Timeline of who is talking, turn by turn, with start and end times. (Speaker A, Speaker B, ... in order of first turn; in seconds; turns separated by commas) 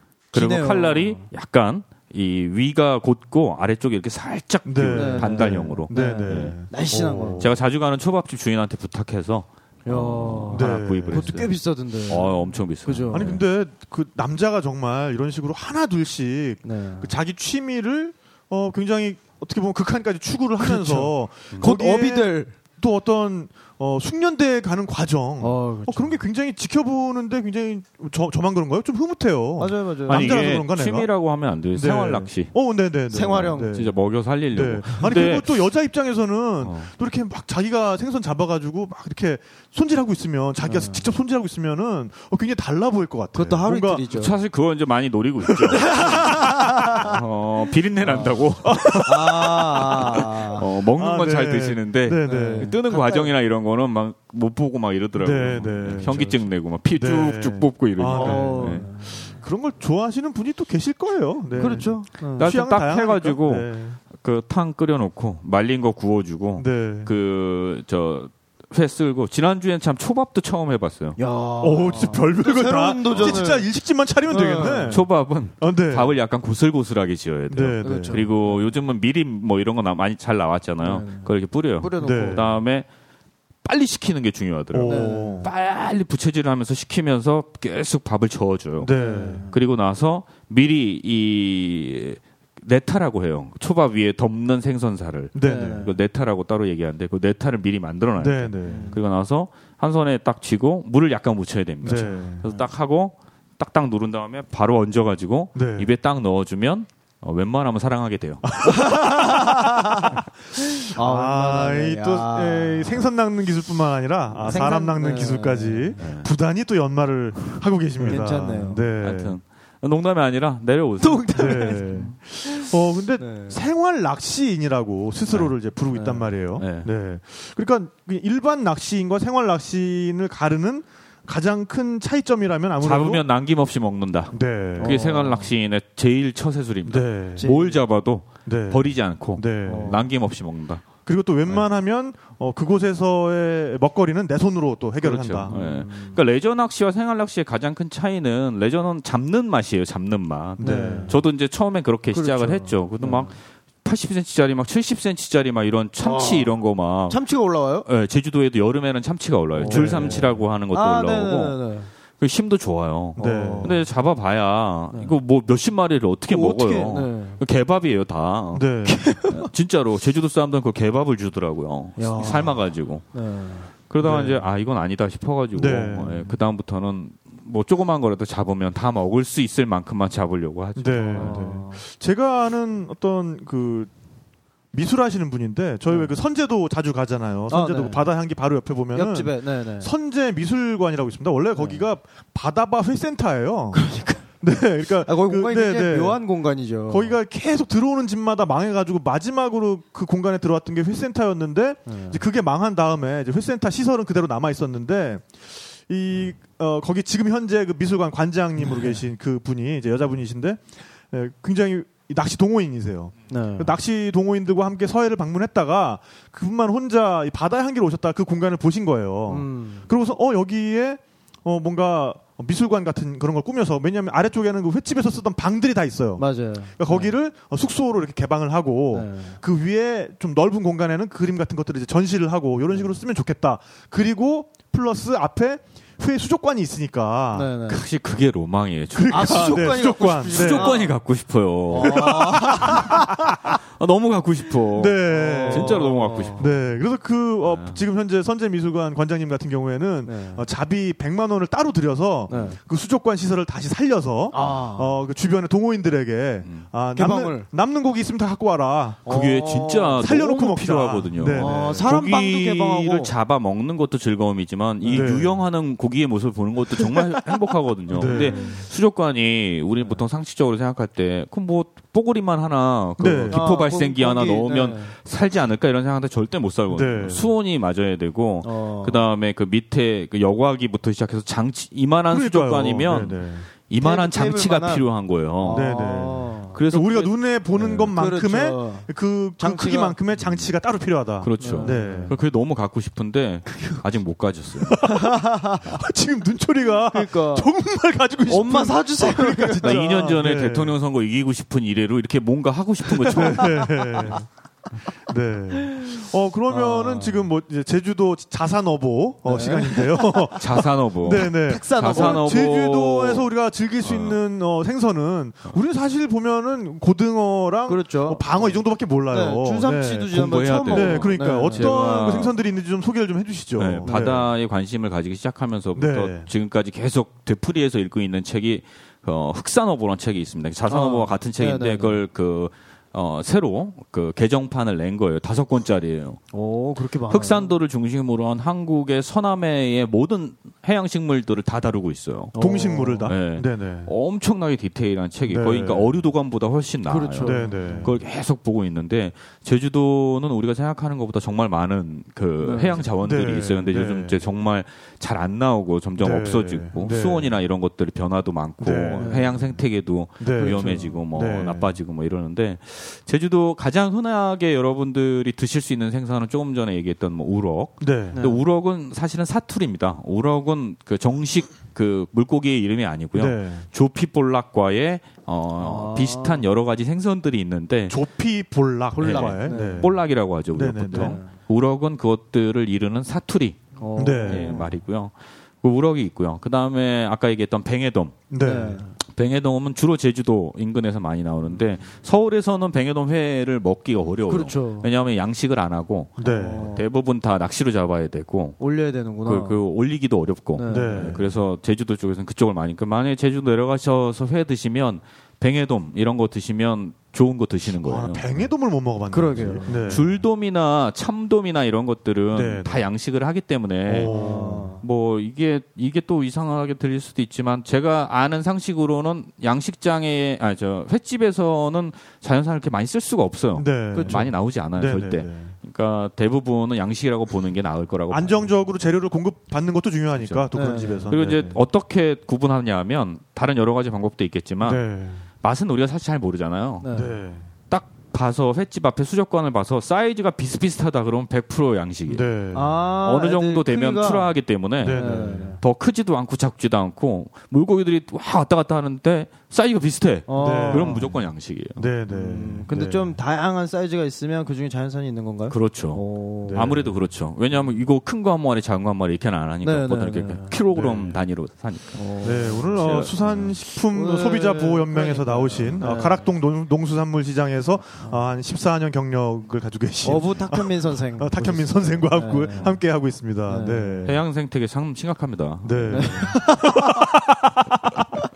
Speaker A: 0.3-1.3, Speaker B: 0.3-6.5, Speaker C: 4.6-7.6, Speaker A: 4.9-7.5, Speaker B: 7.4-11.5, Speaker A: 9.8-13.4, Speaker C: 10.5-11.4, Speaker B: 12.1-13.4, Speaker C: 13.1-31.1, Speaker A: 16.6-17.1, Speaker A: 20.6-22.5, Speaker A: 25.4-26.2, Speaker A: 29.6-30.5, Speaker B: 30.1-32.5, Speaker C: 31.7-33.9, Speaker A: 33.1-33.8, Speaker B: 33.7-35.5, Speaker C: 34.5-44.0, Speaker B: 36.6-36.9, Speaker A: 40.6-41.1, Speaker A: 43.3-44.4, Speaker B: 44.1-58.9, Speaker C: 45.5-47.1, Speaker A: 45.8-47.1, Speaker A: 48.0-50.6, Speaker C: 48.6-49.1, Speaker C: 50.9-52.7, Speaker A: 52.2-53.3, Speaker C: 55.1-64.0, Speaker A: 58.1-59.4, Speaker A: 61.5-62.5, Speaker B: 62.4-71.2, Speaker C: 66.6-67.1, Speaker A: 71.2-73.7, Speaker C: 71.6-75.1, Speaker B: 73.1-73.4, Speaker A: 74.3-75.0, Speaker B: 74.9-82.9, Speaker C: 75.6-76.1, Speaker C: 77.5-78.2, Speaker A: 77.8-78.7, Speaker A: 80.8-81.3, Speaker A: 81.8-82.5, Speaker C: 82.0-82.5, Speaker B: 83.6-88.9, Speaker C: 84.7-85.5, Speaker A: 84.9-85.5, Speaker C: 88.8-89.5, Speaker A: 88.9-89.5, Speaker B: 89.5-108.5, Speaker C: 95.3-95.9, Speaker A: 95.4-95.9, Speaker C: 98.2-98.9, Speaker A: 98.6-99.0, Speaker C: 101.8-102.5, Speaker C: 105.5-105.9, Speaker C: 108.5-119.4, Speaker A: 108.7-110.0, Speaker A: 110.9-113.0, Speaker B: 114.4-114.8, Speaker A: 114.5-116.0, Speaker B: 116.0-116.3, Speaker B: 118.0-118.3, Speaker A: 118.0-118.8, Speaker B: 119.0-122.1, Speaker A: 121.0-121.8, Speaker C: 121.3-133.2, Speaker A: 122.4-123.6, Speaker B: 125.3-125.5, Speaker A: 125.9-126.3, Speaker B: 126.6-126.9, Speaker B: 132.8-140.8, Speaker C: 134.3-135.0, Speaker A: 134.8-135.5, Speaker C: 136.8-137.5, Speaker A: 137.4-137.8, Speaker C: 138.4-140.0, Speaker A: 139.7-140.0, Speaker C: 141.0-145.6, Speaker B: 145.0-157.2, Speaker A: 145.5-146.2, Speaker C: 150.6-151.1, Speaker A: 150.6-151.2, Speaker A: 152.1-153.3, Speaker A: 156.0-156.5, Speaker A: 157.1-157.9, Speaker B: 157.8-161.6, Speaker A: 159.6-161.9, Speaker C: 159.6-160.3, Speaker B: 162.2-173.1, Speaker A: 163.2-163.8, Speaker C: 163.2-163.8, Speaker A: 166.3-167.4, Speaker C: 168.5-169.0, Speaker A: 169.0-169.5, Speaker A: 172.0-172.6, Speaker A: 173.1-173.7, Speaker B: 173.9-181.4, Speaker C: 174.0-174.4, Speaker C: 175.5-176.3, Speaker C: 180.8-183.9, Speaker A: 181.1-181.8, Speaker C: 184.7-196.2, Speaker A: 187.5-188.1, Speaker A: 188.9-189.9, Speaker A: 191.6-191.8, Speaker A: 193.7-194.2, Speaker A: 195.0-197.1, Speaker C: 196.9-205.3, Speaker A: 201.9-202.2, Speaker C: 205.9-237.5, Speaker A: 208.7-208.9, Speaker A: 213.3-213.8, Speaker A: 219.3-219.9, Speaker A: 226.2-227.1, Speaker A: 228.9-229.4, Speaker A: 237.3-237.8, Speaker B: 237.7-239.8, Speaker C: 238.9-240.8, Speaker A: 239.1-240.9, Speaker B: 240.3-242.9, Speaker A: 241.7-243.2, Speaker C: 241.8-243.6, Speaker B: 243.8-246.5, Speaker C: 244.7-259.1, Speaker A: 245.1-246.5, Speaker B: 247.4-247.8, Speaker A: 250.0-250.5, Speaker A: 252.3-252.6, Speaker A: 254.3-255.0, Speaker A: 256.9-257.5, Speaker A: 259.1-260.0, Speaker B: 259.1-285.7, Speaker C: 260.0-261.9, Speaker A: 261.3-263.1, Speaker A: 264.8-265.1, Speaker C: 264.9-265.4, Speaker C: 267.9-268.4, Speaker A: 268.0-268.6, Speaker C: 273.0-273.4, Speaker A: 273.3-274.9, Speaker C: 276.7-277.3, Speaker A: 278.4-279.0, Speaker C: 282.1-283.5, Speaker A: 283.8-284.8, Speaker A: 285.4-286.6, Speaker C: 285.5-292.1, Speaker B: 286.5-287.8, Speaker A: 287.6-290.0, Speaker B: 291.2-294.8, Speaker A: 291.4-292.1, Speaker A: 293.5-293.8, Speaker C: 294.6-300.8, Speaker A: 294.8-295.6, Speaker A: 296.9-297.5, Speaker A: 298.3-299.8, Speaker B: 299.6-303.6, Speaker C: 303.0-304.2, Speaker A: 303.1-304.1, Speaker C: 305.0-324.3, Speaker A: 306.5-307.3, Speaker A: 309.2-310.4, Speaker B: 310.4-313.3, Speaker A: 311.2-312.5, Speaker B: 313.8-314.2, Speaker A: 317.7-321.8, Speaker B: 320.1-322.3, Speaker B: 323.6-336.2, Speaker A: 323.9-324.2, Speaker C: 325.7-326.3, Speaker A: 330.7-332.0, Speaker A: 336.3-337.5, Speaker B: 337.1-342.3, Speaker A: 342.3-343.1, Speaker C: 342.4-343.9, Speaker B: 343.1-378.0, Speaker C: 345.3-345.9, Speaker A: 346.9-347.9, Speaker C: 347.2-347.9, Speaker A: 352.4-352.8, Speaker C: 353.0-354.2, Speaker C: 356.0-357.3, Speaker C: 358.6-359.3, Speaker A: 359.0-359.3, Speaker C: 360.2-361.7, Speaker A: 360.4-360.9, Speaker C: 367.8-368.2, Speaker A: 368.1-368.4, Speaker C: 373.1-373.6, Speaker A: 375.6-376.4, Speaker C: 377.9-380.0, Speaker A: 379.0-379.9, Speaker B: 379.0-383.6, Speaker C: 380.5-381.2, Speaker A: 380.9-381.3, Speaker A: 383.8-384.6, Speaker C: 384.0-384.7, Speaker B: 384.2-388.2, Speaker C: 388.3-388.8, Speaker A: 388.4-388.9, Speaker B: 389.0-398.6, Speaker A: 394.3-394.9, Speaker C: 396.2-396.7, Speaker A: 396.2-396.9, Speaker A: 398.6-399.6, Speaker B: 399.2-408.3, Speaker A: 400.6-401.2, Speaker C: 400.7-401.3, Speaker C: 407.8-410.1, Speaker A: 409.1-409.9, Speaker B: 409.9-414.2, Speaker C: 412.3-412.9, Speaker C: 413.9-414.7, Speaker A: 414.0-414.8, Speaker B: 414.8-428.5, Speaker C: 423.6-425.5, Speaker A: 423.9-424.2, Speaker C: 428.1-431.6, Speaker B: 430.1-430.4, Speaker A: 430.5-431.1, Speaker B: 431.1-434.8, Speaker C: 434.6-435.2, Speaker B: 435.4-437.0, Speaker A: 436.8-437.1, Speaker C: 436.9-437.5, Speaker B: 437.7-442.3, Speaker C: 442.1-442.8, Speaker A: 442.5-444.3, Speaker B: 443.0-451.8, Speaker C: 444.8-445.6, Speaker A: 444.9-445.6, Speaker A: 450.3-451.1, Speaker C: 450.4-451.1, Speaker C: 451.8-453.2, Speaker A: 452.1-456.7, Speaker B: 455.5-462.0, Speaker C: 456.5-456.9, Speaker A: 459.6-460.5, Speaker C: 460.7-461.2, Speaker A: 461.9-462.8, Speaker C: 462.2-474.2, Speaker B: 462.7-463.6, Speaker A: 463.9-466.2, Speaker A: 470.0-472.8, Speaker A: 473.5-474.1, Speaker B: 474.1-476.3, Speaker C: 475.6-478.0, Speaker A: 475.9-477.1